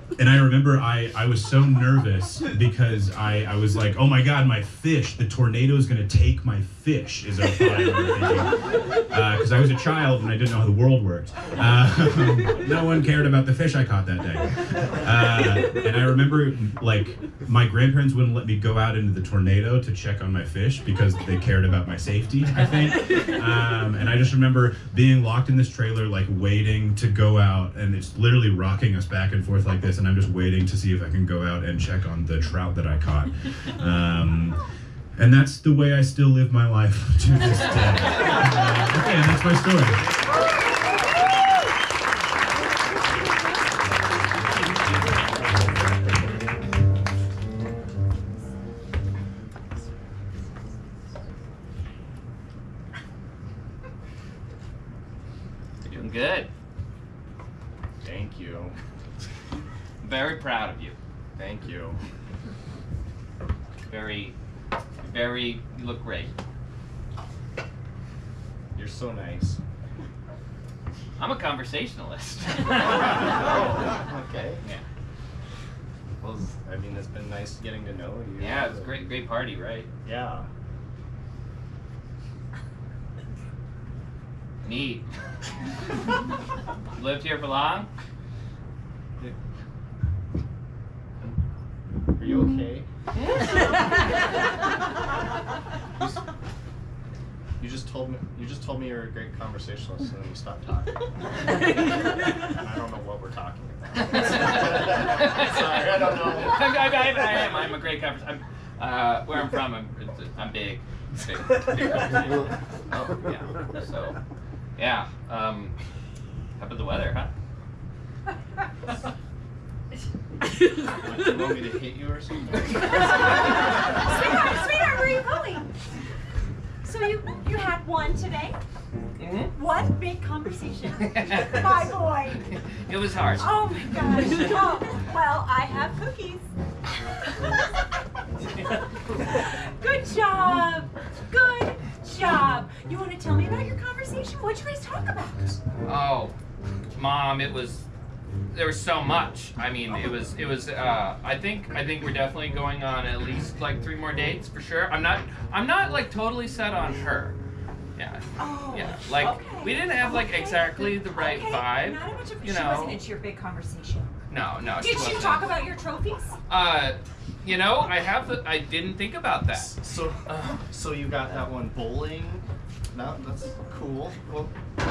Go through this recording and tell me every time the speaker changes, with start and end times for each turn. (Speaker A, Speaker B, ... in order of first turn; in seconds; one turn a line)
Speaker A: 0.2-34.6
Speaker A: 35.2-40.0
Speaker B: 55.8-56.5
Speaker C: 58.0-58.7
Speaker B: 60.0-61.0
Speaker C: 61.4-62.0
Speaker B: 63.9-64.3
Speaker B: 65.0-66.3
Speaker C: 68.8-69.6
Speaker B: 71.2-73.4
Speaker C: 72.8-74.6
Speaker C: 76.2-79.0
Speaker B: 78.4-79.9
Speaker C: 80.0-80.5
Speaker B: 84.6-85.0
Speaker B: 86.9-87.9
Speaker C: 92.1-92.8
Speaker C: 97.6-101.1
Speaker C: 102.4-106.7
Speaker B: 104.0-114.2
Speaker B: 114.8-115.8
Speaker B: 116.6-117.3
Speaker C: 120.9-122.9
Speaker D: 124.0-125.7
Speaker D: 126.8-128.6
Speaker B: 129.2-129.5
Speaker D: 129.5-132.4
Speaker B: 131.0-131.9
Speaker B: 132.8-133.5
Speaker D: 133.4-136.5
Speaker D: 139.2-145.6
Speaker B: 145.8-146.3
Speaker B: 146.9-147.9
Speaker B: 148.5-157.4
Speaker B: 157.9-163.0
Speaker D: 158.4-164.1
Speaker B: 164.3-165.5
Speaker D: 164.8-166.4
Speaker B: 166.5-169.8
Speaker C: 169.5-174.5
Speaker B: 170.3-170.5